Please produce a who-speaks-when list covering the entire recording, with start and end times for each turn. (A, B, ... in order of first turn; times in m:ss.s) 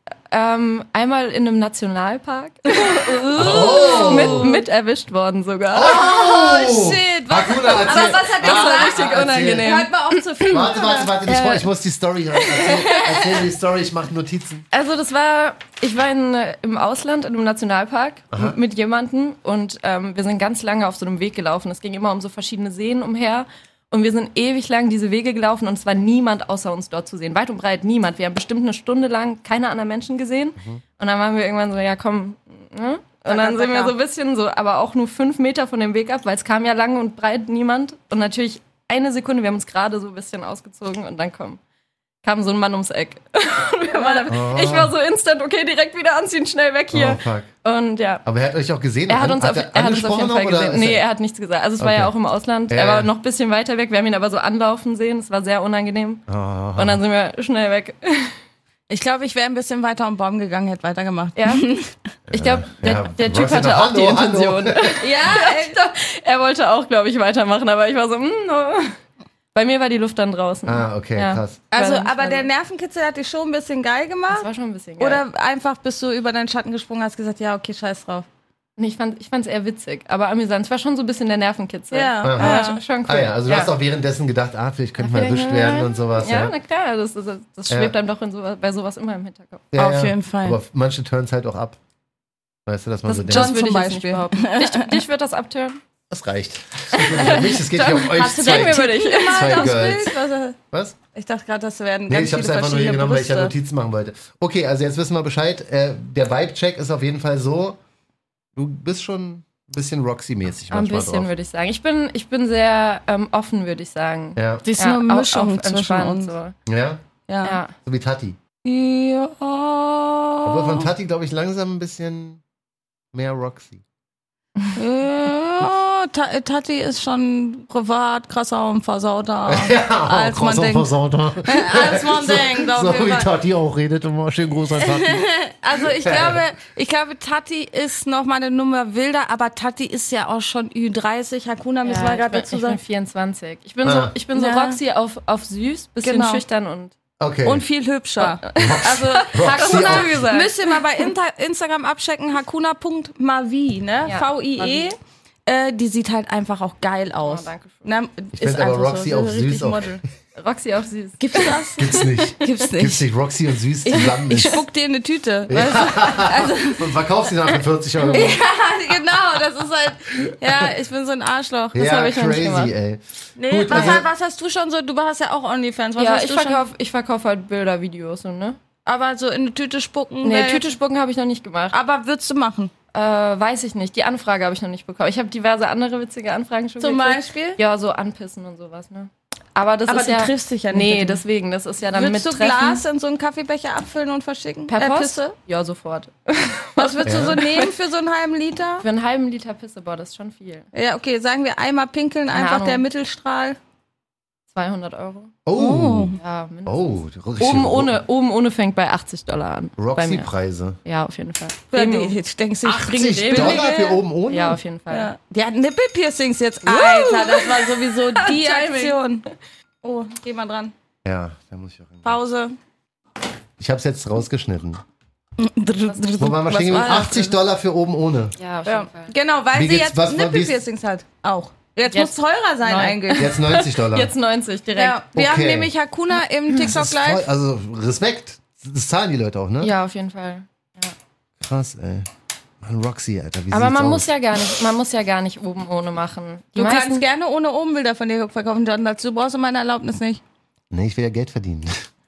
0:00.3-0:06.1 A
0:02.8-0:04.6 B
0:03.4-0:04.6 C
0:05.7-0:09.8 C
0:05.8-0:11.7 B
0:07.7-0:10.9 A
0:10.5-0:14.6 C
0:12.4-0:13.5 B
0:14.7-0:41.6 A
0:18.3-0:18.6 C
0:33.2-0:33.9 B
0:42.2-0:48.2 A
0:44.3-0:45.0 C
0:46.9-0:47.5 C
0:48.2-0:51.0 C
0:49.1-0:58.3 A
0:51.8-0:52.1 C
0:52.7-0:53.1 C
0:56.3-0:57.0 C
0:58.9-1:01.9 B
1:01.4-1:01.7 A
1:02.3-1:05.0 C
1:02.3-1:09.0 A
1:05.0-1:05.8 B
1:09.5-1:12.5 A
1:10.7-1:11.6 C
1:11.7-1:14.5 B
1:14.3-1:15.2 A
1:15.0-1:18.3 B
1:18.8-1:23.7 A
1:21.9-1:22.8 B
1:22.2-1:26.5 C
1:25.0-1:29.7 A
1:25.2-1:25.9 B
1:27.7-1:27.9 C
1:29.7-1:31.8 C
1:29.8-1:30.6 B
1:32.7-1:33.6 C
1:33.1-1:35.8 A
1:33.3-1:35.0 B
1:36.1-1:40.2 C
1:36.9-1:39.8 A
1:38.1-1:40.6 B
1:40.7-1:41.0 C
1:41.1-1:43.5 B
1:42.1-1:47.8 C
1:48.6-1:51.3 C
1:50.7-1:56.6 A
1:54.4-1:54.6 C
1:54.6-1:56.3 B
1:56.7-1:57.0 C
1:57.3-1:57.6 B
1:57.4-1:57.8 A
1:57.8-1:58.4 C
1:58.6-2:00.9 B
2:00.4-2:02.4 C
2:03.1-2:03.8 C
2:04.8-2:10.9 B
2:09.5-2:15.2 C
2:11.4-2:13.3 B
2:14.8-2:22.8 B
2:16.0-2:16.4 C
2:21.8-2:27.0 A
2:23.8-2:24.1 C
2:24.4-2:24.8 B
2:26.0-2:26.4 B
2:27.2-2:27.6 C
2:27.4-2:35.0 B
2:28.2-2:31.0 A
2:28.6-2:30.3 C
2:34.0-2:34.9 A
2:35.5-2:40.0 B
2:37.2-2:37.9 A
2:38.3-2:40.0 C
2:40.4-2:41.7 A
2:41.2-2:43.1 B
2:41.8-2:44.6 C
2:43.9-2:47.0 B
2:45.5-2:48.4 C
2:48.1-2:51.9 B
2:50.3-2:50.7 C
2:51.7-2:54.1 C
2:51.8-2:52.7 A
2:53.4-2:56.6 B
2:53.7-2:54.0 A
2:56.0-2:58.6 A
2:58.9-3:00.8 B
3:00.2-3:01.8 A
3:01.7-3:02.7 B
3:02.9-3:12.8 A
3:06.8-3:07.6 B
3:09.9-3:11.2 B
3:11.9-3:15.4 B
3:14.7-3:17.7 A
3:16.8-3:18.8 B
3:17.0-3:17.4 C
3:18.8-3:20.7 A
3:20.7-3:23.6 B
3:22.3-3:22.8 A
3:24.5-3:25.4 A
3:25.5-3:28.0 C
3:25.6-3:26.2 B
3:26.2-3:30.3 A
3:29.8-3:30.8 C
3:30.8-3:33.7 A
3:31.7-3:34.0 B
3:32.8-3:34.6 C
3:34.3-3:35.1 A
3:34.9-3:39.2 B
3:36.6-3:39.0 A
3:39.8-3:40.7 B
3:41.0-3:42.2 C
3:42.0-3:42.6 B
3:43.6-3:44.8 C
3:45.4-3:47.4 B
3:45.9-3:46.4 A
3:46.2-3:48.4 C
3:48.4-3:49.1 A
3:48.6-3:53.3 B
3:49.5-3:50.6 C
3:51.9-3:55.0 A
3:53.2-3:54.1 C
3:54.8-3:57.2 B
3:55.1-3:55.7 C
3:56.6-3:59.7 C
3:59.6-4:00.9 A
4:01.4-4:02.1 C
4:02.6-4:04.1 C
4:03.5-4:07.0 A
4:06.6-4:10.2 B
4:10.7-4:11.9 C